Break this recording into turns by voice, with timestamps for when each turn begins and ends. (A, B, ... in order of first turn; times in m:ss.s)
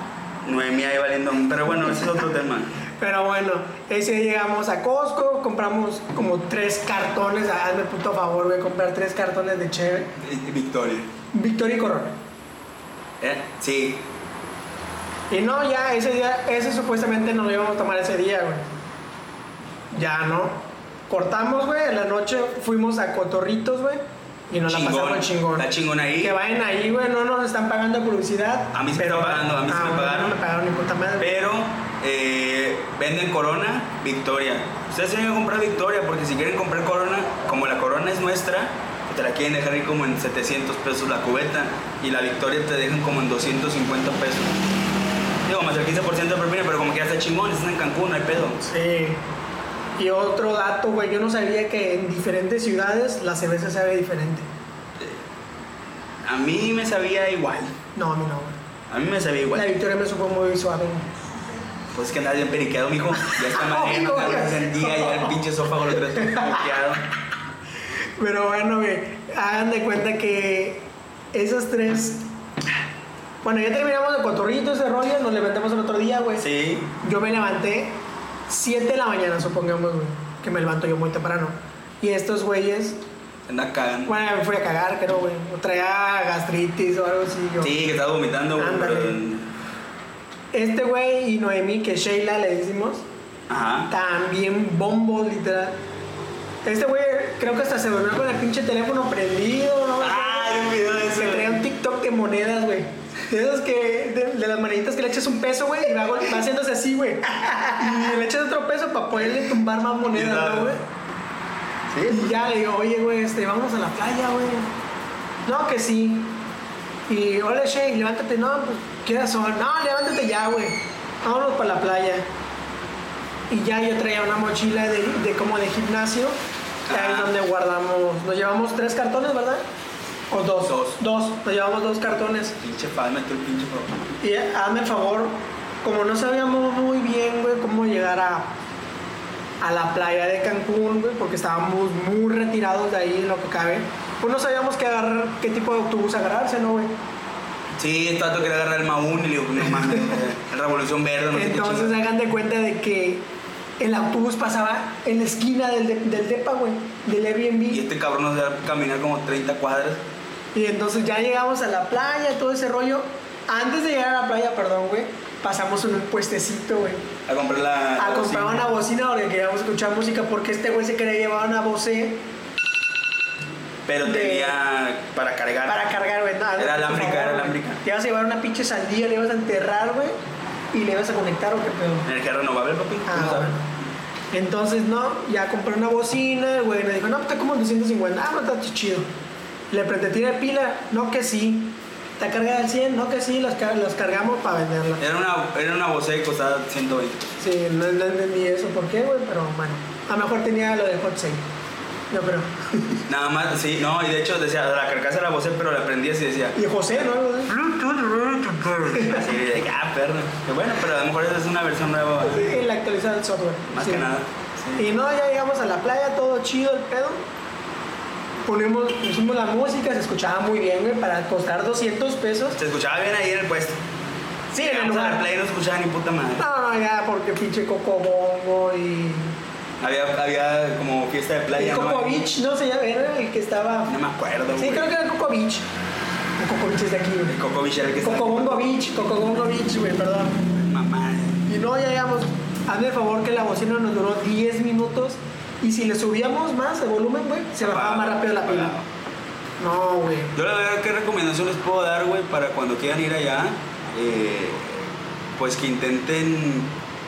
0:00.4-0:02.8 A
0:03.0-0:10.1 B
0:10.2-0:11.1 A
0:11.3-0:12.1 B
0:13.2-0:14.0 A
0:15.3-0:18.7 B
0:19.9-0:20.6 B
0:21.1-0:25.7 B
0:24.7-0:26.4 A
0:26.2-0:31.3 B
0:28.7-0:30.4 A
0:31.2-0:44.5 A
0:45.4-0:48.6 A
0:48.6-0:49.2 B
0:50.0-0:54.5 B
0:56.2-0:57.7 A
0:57.9-0:58.6 B
0:58.9-0:59.7 A
0:59.5-1:01.2 B
1:01.9-1:07.0 A
1:03.2-1:05.4 B
1:06.1-1:06.6 B
1:08.2-1:12.3 B
1:13.4-1:16.4 B
1:16.4-1:16.9 A
1:17.0-1:23.0 B
1:23.5-1:24.1 A
1:24.1-1:27.7 B
1:27.6-1:29.5 A
1:28.6-1:29.2 B
1:30.5-1:33.0 B
1:33.5-1:33.9 A
1:33.9-1:35.8 B
1:36.6-1:50.8 B
1:40.0-1:41.6 A
1:47.8-1:48.2 A
1:49.2-1:49.5 A
1:50.1-1:50.8 A
1:51.9-1:52.4 A
1:52.1-1:54.7 B
1:55.4-1:56.4 B
1:57.1-2:02.3 B
2:03.5-2:06.4 B
2:06.9-2:07.3 A
2:06.9-2:09.6 B
2:10.3-2:12.6 B
2:10.6-2:11.0 A
2:12.6-2:14.0 A
2:14.2-2:18.5 B
2:19.6-2:26.9 B
2:27.8-2:31.9 A
2:29.7-2:30.2 B
2:31.3-2:33.2 B
2:33.8-2:37.9 B
2:37.7-2:40.0 A
2:40.6-2:47.1 B
2:47.3-2:48.6 A
2:48.0-2:52.2 B
2:53.9-2:55.9 A
2:54.0-2:54.6 B
2:55.6-3:00.2 B
2:56.6-2:57.8 A
3:00.7-3:02.1 B
3:02.1-3:03.6 A
3:03.1-3:03.6 B
3:04.3-3:09.1 B
3:09.7-3:15.0 B
3:15.0-3:17.4 A
3:17.4-3:21.4 B
3:22.1-3:23.1 B
3:23.1-3:32.6 A
3:26.6-3:27.6 B
3:28.8-3:29.2 B
3:32.2-3:34.1 B
3:33.7-3:34.9 A
3:34.8-3:37.2 B
3:38.5-3:42.6 B
3:42.6-3:43.8 A
3:44.5-3:45.2 B
3:44.6-3:46.5 A
3:46.4-3:49.4 B
3:49.8-3:52.3 A
3:51.6-3:53.9 B
3:53.9-3:54.9 A
3:54.6-3:55.6 B
3:56.4-3:57.4 B
3:57.3-3:58.6 A
3:58.0-4:00.4 B
4:00.5-4:01.5 A
4:01.5-4:08.7 B
4:07.6-4:08.9 A
4:09.6-4:10.4 B
4:10.3-4:16.7 A